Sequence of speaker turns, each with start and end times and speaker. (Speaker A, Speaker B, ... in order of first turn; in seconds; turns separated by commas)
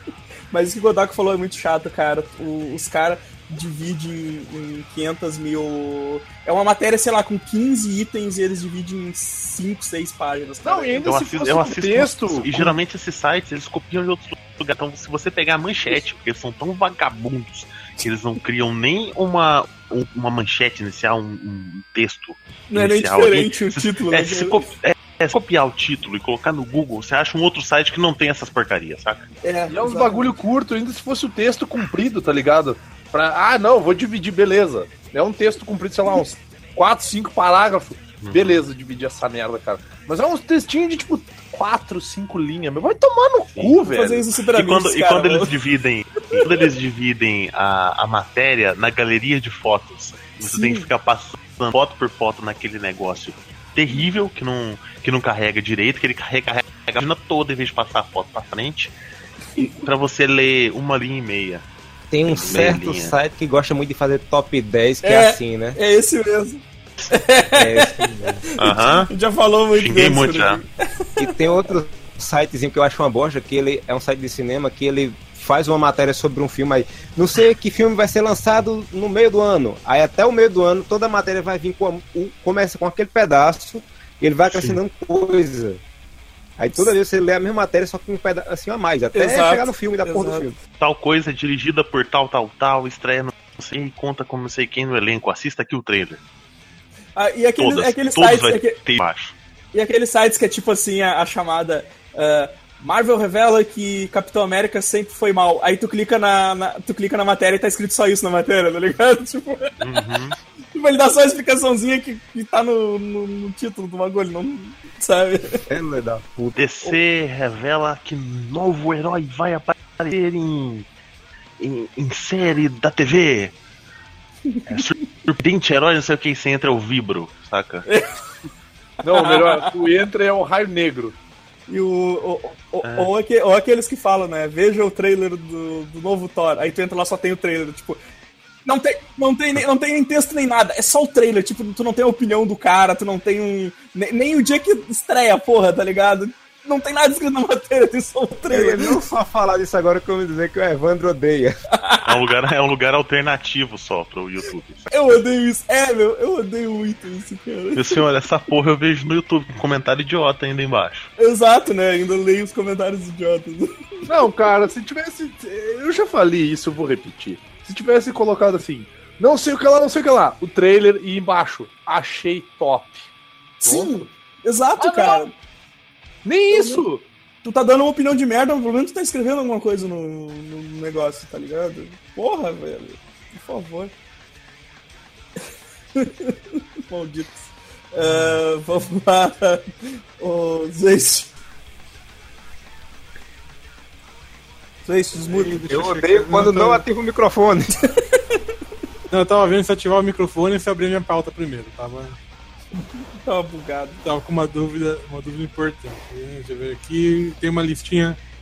Speaker A: 0.5-11.0, Speaker B: 10.6-12.8, Speaker C: 11.0-29.3, Speaker A: 22.7-24.7, Speaker A: 29.4-30.3, Speaker B: 29.7-44.2, Speaker C: 38.2-38.6, Speaker A: 43.9-45.5, Speaker C: 44.5-58.9, Speaker A: 50.4-50.9, Speaker C: 59.5-61.6, Speaker D: 62.1-65.8, Speaker C: 62.2-63.1, Speaker A: 65.0-71.3, Speaker D: 67.5-68.4, Speaker C: 68.6-69.1, Speaker C: 69.7-70.6, Speaker D: 71.2-85.8, Speaker C: 84.5-84.8, Speaker D: 86.6-90.6, Speaker A: 89.1-90.5, Speaker C: 90.8-96.2, Speaker A: 97.2-98.8, Speaker C: 97.6-99.3, Speaker A: 99.7-109.8, Speaker C: 109.8-110.4, Speaker A: 110.7-115.6, Speaker D: 115.7-116.9, Speaker C: 116.5-120.8, Speaker C: 121.6-123.5, Speaker A: 124.5-124.9, Speaker C: 124.7-127.9, Speaker A: 129.0-129.8, Speaker B: 129.0-131.1, Speaker A: 131.7-138.0, Speaker C: 132.8-133.1, Speaker A: 138.6-149.0, Speaker D: 148.5-151.6, Speaker A: 151.7-152.2, Speaker C: 152.0-155.2, Speaker A: 154.9-158.0, Speaker C: 157.7-161.1, Speaker A: 161.2-164.1, Speaker B: 164.1-173.1, Speaker A: 173.6-175.3, Speaker B: 173.6-174.1, Speaker B: 174.8-175.2, Speaker B: 176.2-177.0, Speaker A: 176.5-176.8, Speaker A: 177.4-183.9, Speaker A: 185.9-191.3, Speaker E: 188.0-188.4, Speaker A: 194.8-195.6, Speaker E: 195.2-196.8, Speaker D: 195.7-197.7, Speaker E: 199.1-202.2, Speaker A: 203.2-204.0, Speaker E: 204.0-208.2